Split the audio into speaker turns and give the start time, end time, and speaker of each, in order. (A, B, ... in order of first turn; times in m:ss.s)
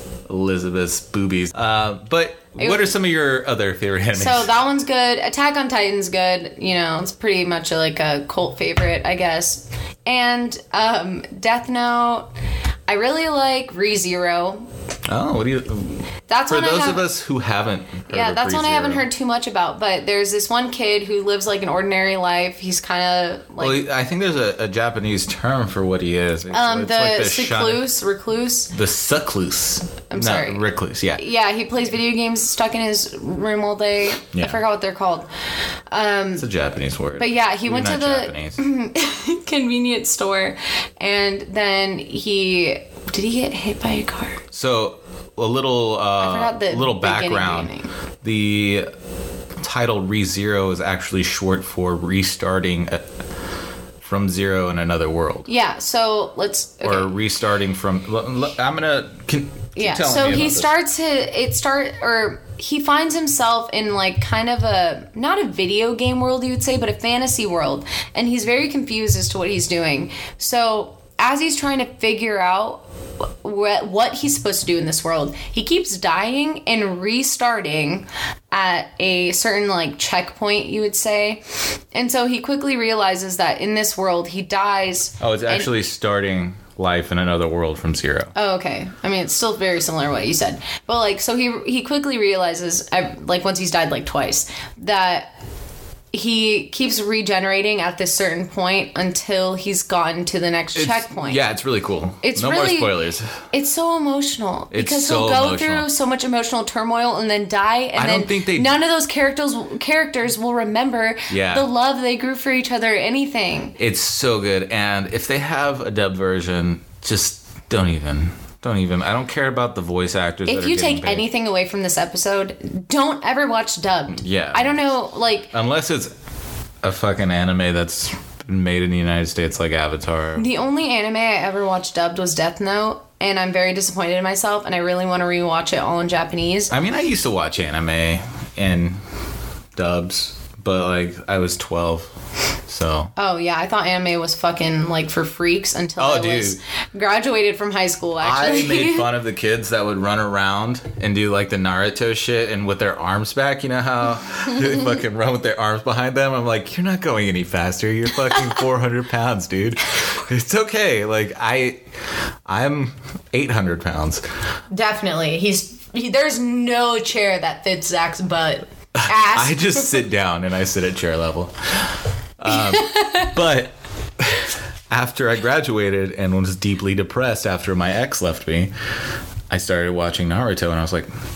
0:00.3-0:04.5 A
0:02.6-0:02.9 B
0:04.1-0:12.3 B
0:12.9-0:14.7 B
0:15.0-0:19.0 A
0:16.3-0:17.0 B
0:18.1-0:23.8 B
0:23.6-0:27.9 A
0:26.5-0:28.7 B
0:28.7-0:31.2 A
0:30.1-0:30.6 B
0:31.2-0:35.3 B
0:34.3-0:34.6 A
0:35.9-0:36.4 B
0:36.4-0:38.6 A
0:37.2-0:44.4 B
0:44.5-0:47.7 A
0:46.2-0:47.9 B
0:48.2-0:48.9 A
0:49.6-0:53.0 A
0:54.0-0:55.5 A
0:55.5-0:57.1 B
0:56.8-1:00.7 A
0:59.8-1:12.8 B
1:13.4-1:21.4 B
1:21.9-1:25.7 B
1:25.2-1:28.3 A
1:28.4-1:35.3 B
1:36.1-1:41.4 B
1:40.8-1:43.3 A
1:42.2-1:42.9 B
1:43.5-1:53.8 B
1:44.7-1:45.9 A
1:47.9-1:48.8 A
1:51.3-1:51.7 A
1:53.8-2:01.3 A
2:00.4-2:05.5 B
2:04.1-2:04.9 A
2:05.5-2:06.1 A
2:06.8-2:10.4 A
2:10.4-2:16.8 B
2:16.7-2:19.0 A
2:19.8-2:22.1 A
2:22.7-2:23.1 A
2:23.2-2:29.1 B
2:26.0-2:26.6 A
2:28.2-2:41.8 A
2:42.4-2:44.2 A
2:44.7-2:50.0 B
2:49.0-2:58.7 A
2:52.8-2:53.2 B
2:59.5-3:01.1 A